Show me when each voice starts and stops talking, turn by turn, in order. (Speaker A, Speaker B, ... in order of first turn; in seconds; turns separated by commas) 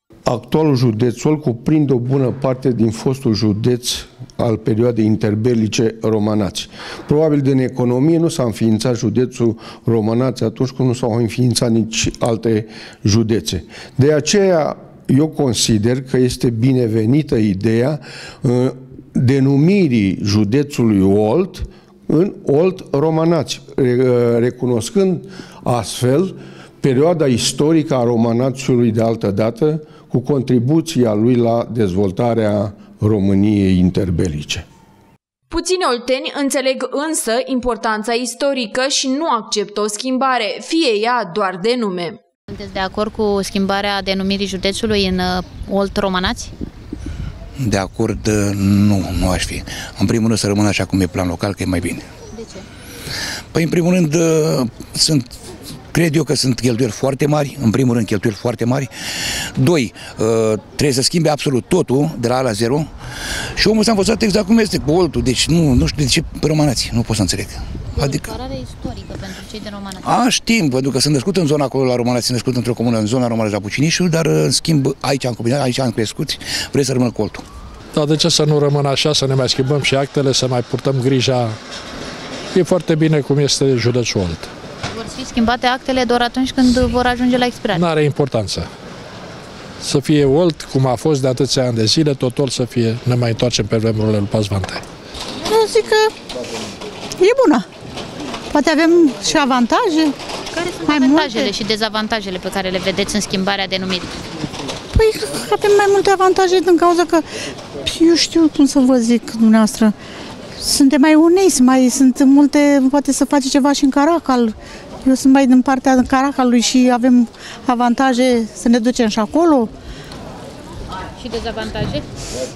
Speaker A: 0.3-34.6, Speaker B: 35.5-42.2, Speaker C: 42.5-46.5, Speaker D: 47.6-52.1, Speaker C: 52.3-52.7, Speaker D: 53.5-55.3, Speaker D: 55.9-58.9, Speaker D: 59.6-62.9, Speaker D: 63.6-68.3, Speaker C: 68.0-70.1, Speaker D: 70.0-77.5, Speaker E: 77.9-81.6, Speaker E: 82.5-84.5, Speaker C: 84.9-87.9, Speaker E: 87.7-88.7, Speaker E: 89.8-94.8, Speaker F: 95.5-96.1, Speaker F: 97.2-97.7, Speaker F: 98.5-100.1, Speaker C: 100.5-104.1, Speaker F: 100.8-101.5, Speaker F: 104.9-107.2, Speaker F: 107.8-109.9, Speaker F: 110.6-114.5, Speaker F: 115.0-119.7, Speaker C: 121.2-122.1